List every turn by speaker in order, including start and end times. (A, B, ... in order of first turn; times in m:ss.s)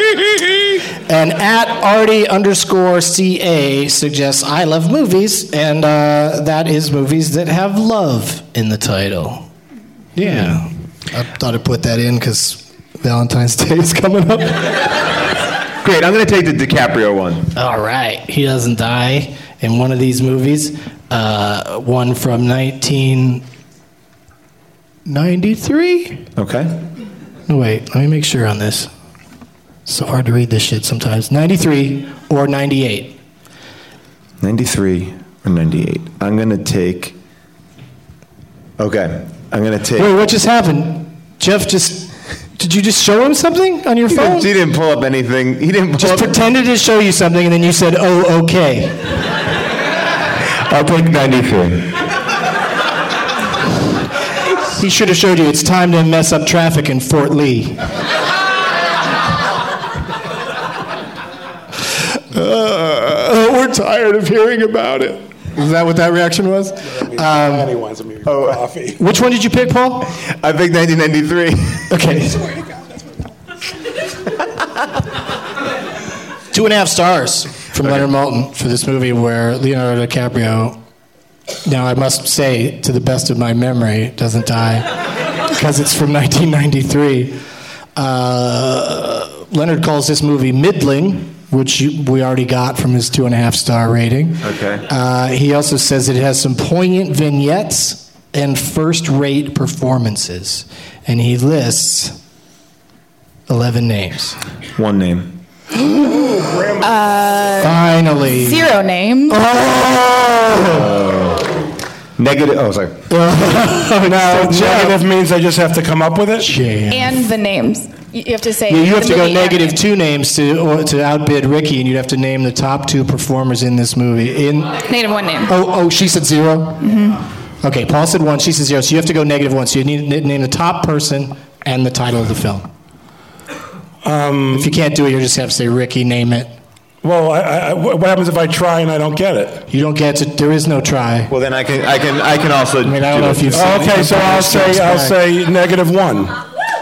0:01.1-0:09.5 A
0:10.1-0:14.8 A
0:15.8-0:17.5 B
0:17.5-0:23.4 A
0:25.0-0:26.3 A
0:26.4-0:26.8 B
0:27.5-0:28.9 A
0:29.8-0:33.2 A
0:34.4-0:37.2 B
0:38.8-0:40.1 B
0:40.0-0:44.5 A
0:44.1-0:46.4 B
0:46.0-0:49.0 A
0:50.6-0:51.9 B
0:54.8-0:57.8 A
1:02.3-1:07.7 A
1:07.0-1:09.0 C
1:08.2-1:08.6 B
1:09.0-1:10.1 A
1:10.2-1:11.9 B
1:11.9-1:12.5 A
1:16.5-1:20.8 A
1:21.6-1:24.9 A
1:25.5-1:27.4 A
1:28.0-1:42.2 A
1:34.4-1:34.8 B
1:43.5-1:44.4 A
1:44.8-1:45.4 B
1:46.0-1:46.9 C
1:46.8-1:49.4 D
1:47.6-1:48.7 A
1:49.3-1:50.9 A
1:50.6-1:51.6 B
1:52.2-1:53.0 B
1:53.1-1:55.0 A
1:54.1-1:56.5 C
1:56.4-1:57.2 A
1:56.9-1:59.8 D
1:58.7-2:04.8 A
2:04.8-2:05.5 D
2:05.4-2:06.9 A
2:06.8-2:07.2 D
2:07.6-2:12.7 A
2:14.0-2:14.8 C
2:14.5-2:16.5 A
2:17.0-2:19.6 C
2:19.7-2:21.3 A
2:21.3-2:23.7 B
2:22.8-2:25.2 A
2:23.5-2:26.4 C